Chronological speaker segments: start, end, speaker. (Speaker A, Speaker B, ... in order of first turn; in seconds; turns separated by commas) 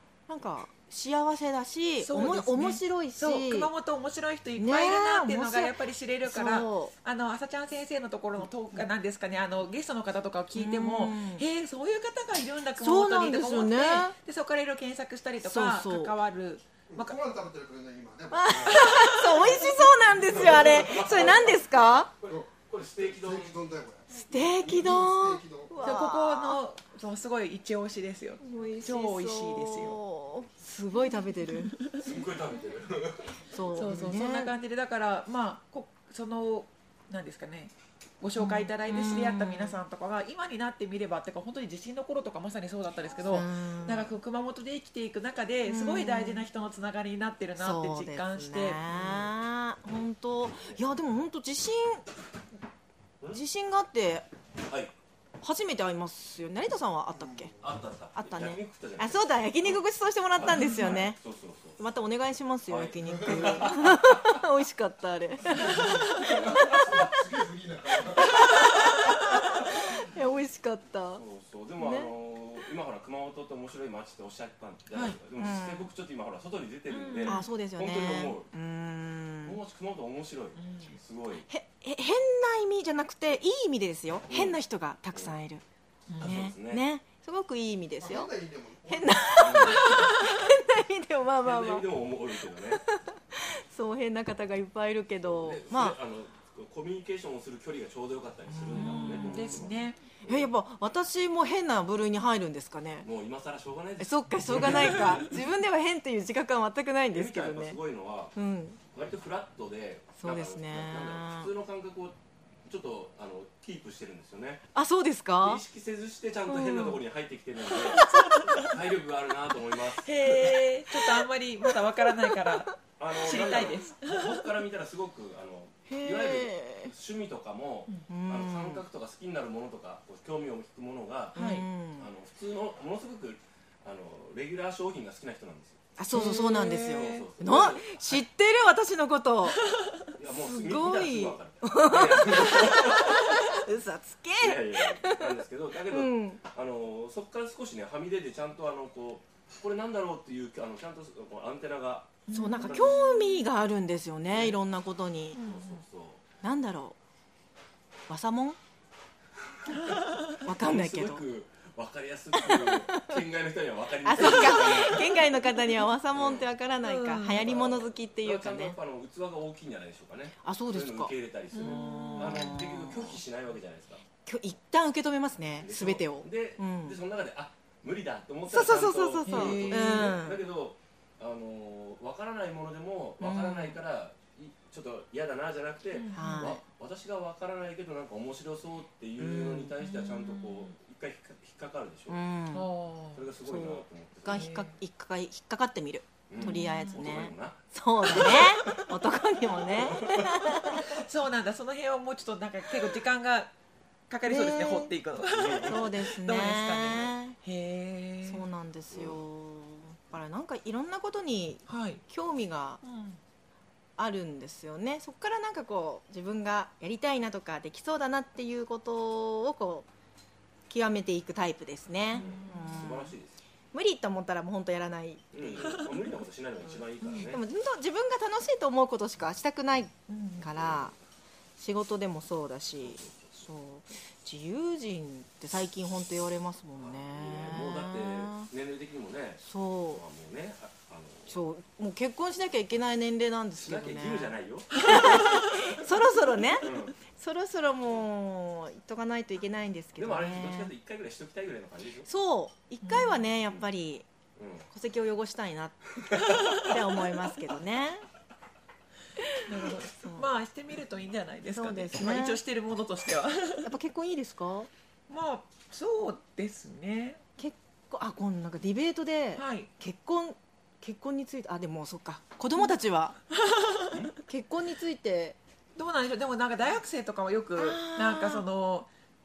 Speaker A: 0.3-3.7, Speaker B: 2.0-17.2, Speaker A: 4.6-5.7, Speaker A: 6.2-6.9, Speaker A: 10.6-11.4, Speaker A: 12.8-14.2, Speaker A: 15.4-16.1, Speaker C: 16.9-18.9, Speaker A: 18.3-22.1, Speaker B: 18.7-19.7, Speaker D: 20.1-23.6, Speaker C: 20.3-21.4, Speaker C: 22.2-25.9, Speaker A: 24.1-26.6, Speaker B: 25.8-30.0, Speaker A: 28.4-31.7, Speaker B: 31.6-32.2, Speaker D: 32.0-33.4, Speaker A: 33.5-34.5, Speaker B: 33.7-48.8, Speaker A: 38.4-39.8, Speaker A: 43.3-44.1, Speaker A: 45.7-46.5, Speaker A: 47.6-52.0, Speaker D: 48.9-49.3, Speaker D: 50.5-50.8, Speaker A: 53.3-54.3, Speaker D: 54.7-54.9, Speaker A: 55.4-57.5, Speaker D: 57.6-61.8, Speaker A: 58.1-61.2, Speaker B: 60.4-61.0, Speaker A: 61.8-66.8, Speaker D: 62.7-64.4, Speaker C: 63.1-63.6, Speaker C: 65.5-68.7, Speaker A: 68.2-71.2, Speaker D: 71.2-78.5, Speaker A: 71.8-72.1, Speaker B: 74.9-75.2, Speaker A: 75.4-75.9, Speaker B: 76.9-77.5, Speaker A: 77.2-79.6, Speaker D: 79.4-81.5, Speaker B: 80.6-81.0, Speaker A: 81.5-85.6, Speaker D: 84.3-84.6, Speaker D: 85.1-85.4, Speaker B: 86.1-86.5, Speaker D: 86.2-86.8, Speaker A: 86.2-88.3, Speaker C: 88.0-89.2, Speaker A: 88.9-91.9, Speaker D: 89.4-90.1, Speaker D: 91.4-92.8, Speaker A: 92.4-96.0, Speaker D: 95.2-100.5, Speaker B: 98.6-100.0, Speaker A: 98.7-99.6, Speaker A: 100.2-103.1, Speaker D: 103.0-105.5, Speaker A: 104.0-107.8, Speaker D: 107.1-108.3, Speaker A: 108.3-108.8, Speaker D: 108.9-114.7, Speaker A: 110.2-111.5, Speaker A: 114.8-115.6, Speaker D: 115.4-120.5, Speaker A: 116.5-117.0, Speaker B: 117.9-118.7, Speaker B: 120.0-124.4, Speaker D: 123.0-131.4, Speaker A: 125.9-126.9, Speaker A: 128.1-128.8, Speaker A: 131.3-132.1, Speaker B: 131.4-131.7, Speaker D: 132.0-135.9, Speaker A: 136.0-139.6, Speaker B: 136.1-137.2, Speaker D: 136.7-138.2, Speaker B: 139.5-140.0, Speaker D: 140.2-143.4, Speaker A: 140.4-145.4, Speaker D: 144.4-153.1, Speaker A: 145.9-146.4, Speaker B: 152.3-153.4, Speaker A: 152.3-155.4, Speaker D: 154.3-154.6, Speaker D: 155.3-156.2, Speaker B: 155.3-155.8, Speaker A: 156.4-157.0, Speaker A: 158.1-158.6, Speaker B: 159.7-160.3, Speaker A: 160.4-161.2, Speaker D: 160.6-166.5, Speaker A: 162.3-163.2, Speaker A: 164.0-168.8, Speaker B: 166.8-167.4, Speaker D: 167.4-174.0, Speaker A: 170.4-173.2, Speaker B: 171.5-172.6, Speaker A: 174.3-177.0, Speaker D: 175.6-192.2, Speaker A: 178.5-180.4, Speaker B: 179.2-180.2, Speaker A: 183.2-183.8, Speaker B: 185.9-186.5, Speaker A: 186.1-186.6, Speaker A: 189.2-189.7, Speaker B: 189.8-190.7, Speaker A: 192.1-192.7, Speaker B: 192.5-193.3, Speaker D: 193.2-194.5, Speaker A: 193.4-201.0, Speaker B: 194.3-194.8, Speaker D: 196.3-198.5, Speaker B: 196.3-197.0, Speaker D: 199.6-200.8, Speaker B: 200.8-203.5, Speaker B: 204.1-208.4, Speaker A: 204.3-204.9, Speaker D: 205.2-205.9, Speaker A: 205.6-207.4, Speaker A: 208.3-212.8, Speaker D: 208.9-209.2, Speaker B: 211.7-212.0, Speaker B: 212.8-213.2, Speaker A: 214.0-219.9, Speaker A: 220.7-223.2, Speaker B: 222.1-222.8, Speaker D: 222.2-223.4, Speaker A: 223.7-225.7, Speaker D: 225.3-227.4, Speaker B: 225.4-225.9, Speaker A: 227.1-230.9, Speaker B: 230.1-230.5, Speaker D: 230.6-230.9, Speaker A: 231.6-238.5, Speaker D: 232.8-233.4, Speaker D: 236.8-241.4, Speaker A: 239.4-240.0, Speaker A: 241.3-250.7, Speaker D: 243.6-244.8, Speaker B: 244.8-245.8, Speaker D: 246.6-247.0, Speaker D: 250.0-252.1, Speaker A: 252.1-254.1, Speaker B: 252.8-253.2, Speaker D: 254.4-254.7, Speaker A: 254.7-258.0, Speaker B: 259.5-263.7, Speaker A: 260.0-260.2, Speaker A: 261.5-262.4, Speaker A: 263.6-264.7, Speaker B: 265.1-267.2, Speaker A: 267.4-273.2, Speaker B: 269.4-269.7, Speaker B: 273.4-274.1, Speaker A: 274.2-275.4, Speaker B: 275.8-278.9, Speaker A: 277.6-278.4